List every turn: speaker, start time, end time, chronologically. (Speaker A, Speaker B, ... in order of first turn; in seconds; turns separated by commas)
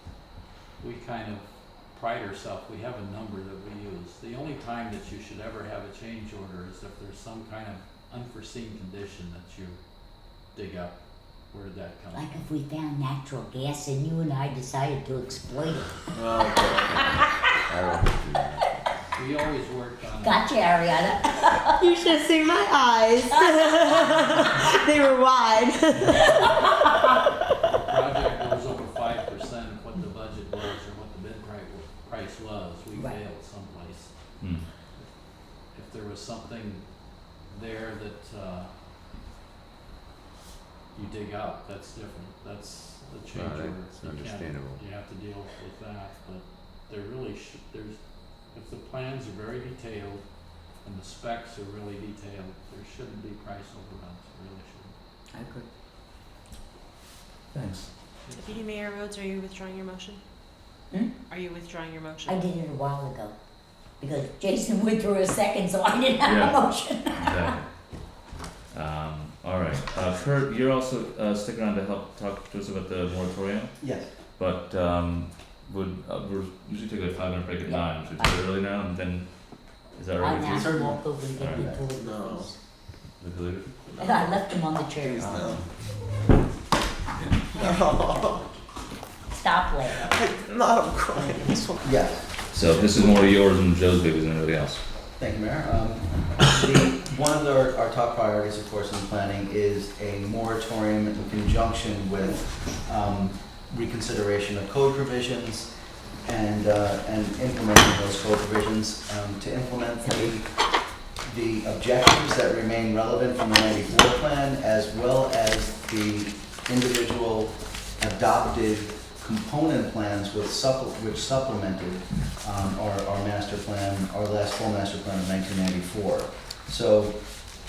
Speaker A: 0.8-12.3, Speaker B: 12.1-16.5, Speaker C: 16.1-19.0, Speaker A: 19.1-20.7, Speaker B: 20.2-22.1, Speaker D: 21.8-26.0, Speaker B: 23.3-24.3, Speaker A: 26.0-26.4, Speaker A: 27.6-34.1, Speaker E: 34.4-34.7, Speaker A: 35.6-38.7, Speaker A: 40.9-54.9, Speaker C: 43.3-44.8, Speaker B: 55.3-55.7, Speaker E: 57.5-57.9, Speaker A: 58.3-58.5, Speaker F: 58.3-60.2, Speaker B: 60.9-61.2, Speaker F: 61.3-62.4, Speaker B: 62.2-63.4, Speaker B: 64.0-67.6, Speaker E: 66.2-67.7, Speaker E: 68.7-80.8, Speaker G: 73.8-74.1, Speaker B: 77.6-78.4, Speaker B: 80.2-82.6, Speaker G: 80.4-81.9, Speaker E: 81.3-81.7, Speaker H: 82.0-82.5, Speaker E: 83.2-83.7, Speaker B: 84.0-85.6, Speaker E: 85.2-85.6, Speaker H: 85.2-85.6, Speaker B: 87.5-88.6, Speaker H: 87.7-88.2, Speaker B: 89.3-90.2, Speaker H: 90.2-91.8, Speaker G: 91.3-92.4, Speaker E: 92.5-94.8, Speaker G: 95.2-110.6, Speaker G: 111.2-127.2